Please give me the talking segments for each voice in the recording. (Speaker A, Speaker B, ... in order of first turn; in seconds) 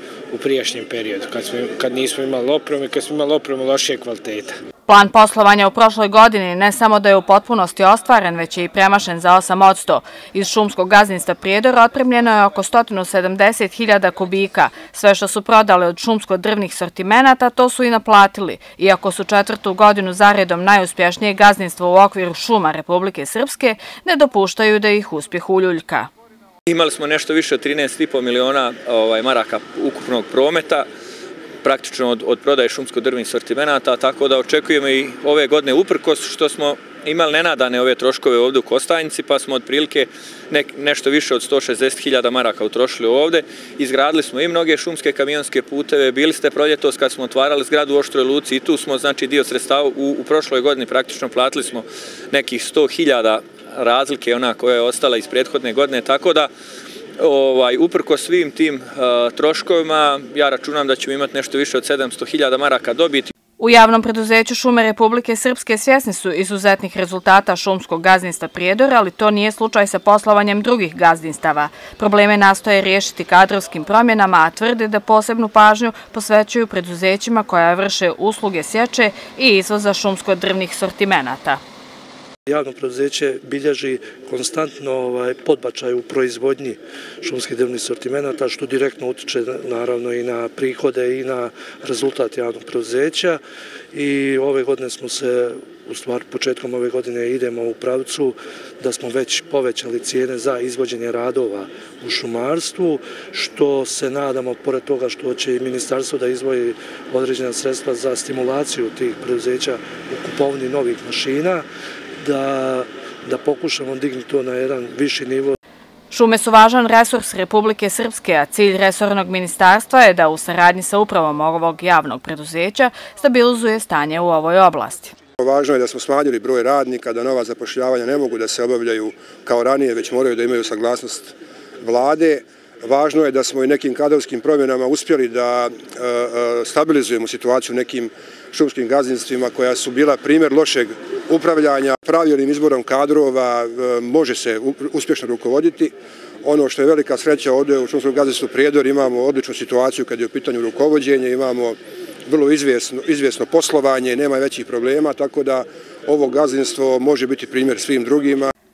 Speaker A: 0.3-4.6
Speaker B: 4.9-26.1, 63.6-81.6, 116.1-125.1
Speaker C: 26.7-30.8, 31.6-56.5, 57.2-63.3
Speaker D: 82.5-93.4, 93.9-111.6, 112.2-115.6
Speaker E: 125.4-151.8, 152.3-158.5